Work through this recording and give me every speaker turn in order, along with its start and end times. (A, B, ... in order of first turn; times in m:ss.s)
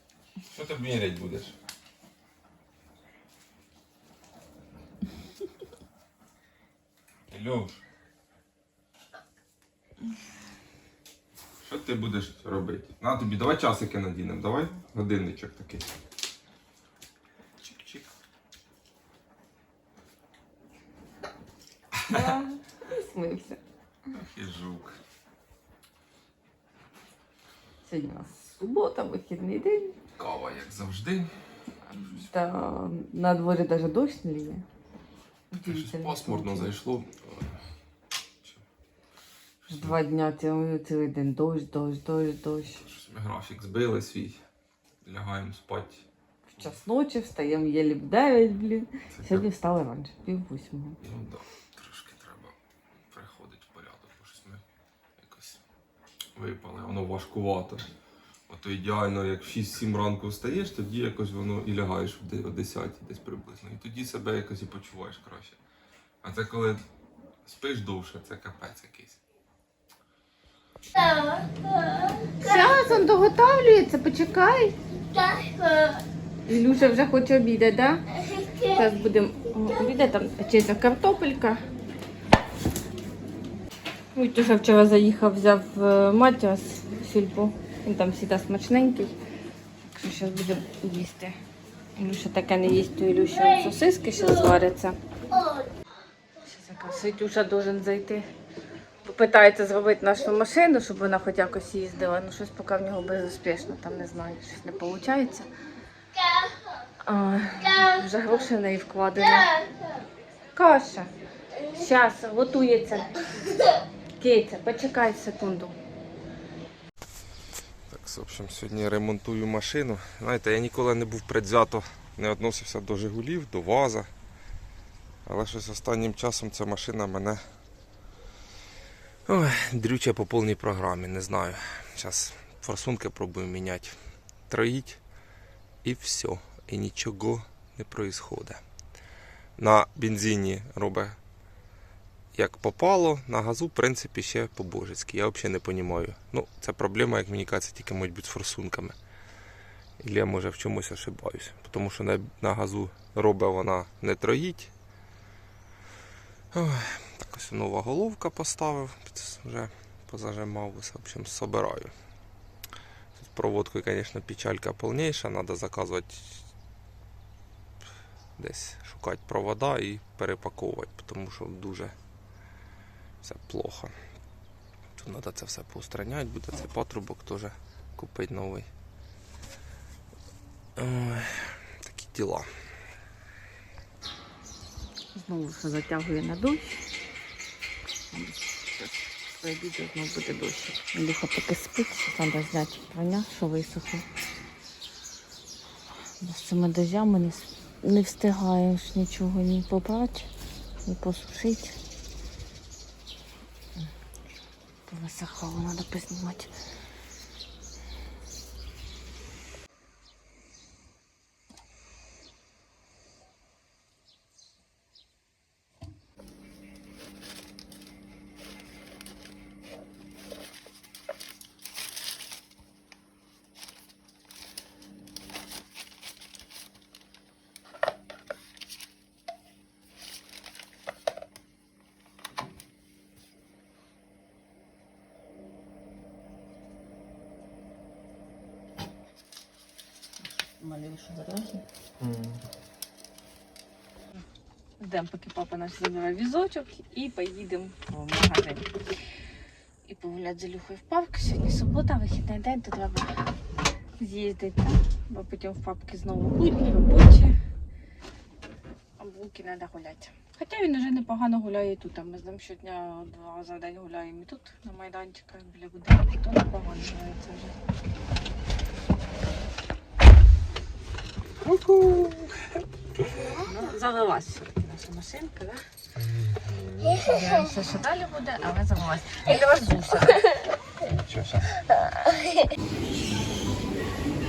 0:00.4-0:01.5 A
0:07.3-0:07.8 A
0:11.6-0:15.9 A
0:17.6-0:18.1 A
0:21.9-0:22.3 A
0:22.1-0:23.6 B
0:24.1-0:25.0 A
0:27.8-0:29.9 B
0:30.2-0:31.3 A
0:31.9-0:34.6 B
0:31.9-0:32.3 A
0:35.5-0:36.7 B
0:35.6-0:37.6 A
0:39.6-0:40.0 A
0:39.7-0:42.8 B
0:42.8-0:44.4 A
0:45.0-0:46.0 A
0:46.5-0:51.0 B
0:49.1-0:49.5 A
0:51.0-0:52.6 A
0:53.1-0:54.6 A
0:55.2-0:55.6 A
0:56.4-0:57.9 A
0:58.5-1:05.6 A
1:06.2-1:06.8 A
1:07.4-1:09.2 A
1:12.4-1:14.7 B
1:16.4-1:18.0 B
1:18.6-1:21.6 B
1:24.1-1:29.1 B
1:29.8-1:31.4 B
1:32.0-1:35.0 B
1:36.4-1:38.2 B
1:39.0-1:45.5 B
1:47.0-1:49.6 B
1:50.5-1:51.1 B
1:51.7-1:53.2 B
1:54.2-1:55.7 B
1:57.9-2:04.1 A
2:05.2-2:07.4 A
2:09.2-2:14.0 A
2:14.5-2:15.0 A
2:15.8-2:18.6 A
2:19.6-2:21.2 A
2:22.3-2:29.0 A
2:30.0-2:34.7 A
2:36.5-2:41.9 A
2:43.2-2:46.5 A
2:48.4-2:51.9 A
2:53.2-2:53.9 A
2:55.0-2:58.7 A
3:00.8-3:02.5 A
3:05.1-3:06.8 B
3:08.1-3:14.0 B
3:16.2-3:20.3 B
3:20.8-3:21.8 B
3:24.9-3:26.5 B
4:00.2-4:01.6 B
4:02.0-4:02.4 A
4:04.8-4:08.7 B
4:09.8-4:13.1 B
4:14.0-4:17.3 B
4:19.0-4:27.5 B
4:31.4-4:32.6 A
4:33.2-4:35.6 B
4:36.0-4:37.3 A
4:37.0-4:40.3 B
4:40.8-4:41.6 A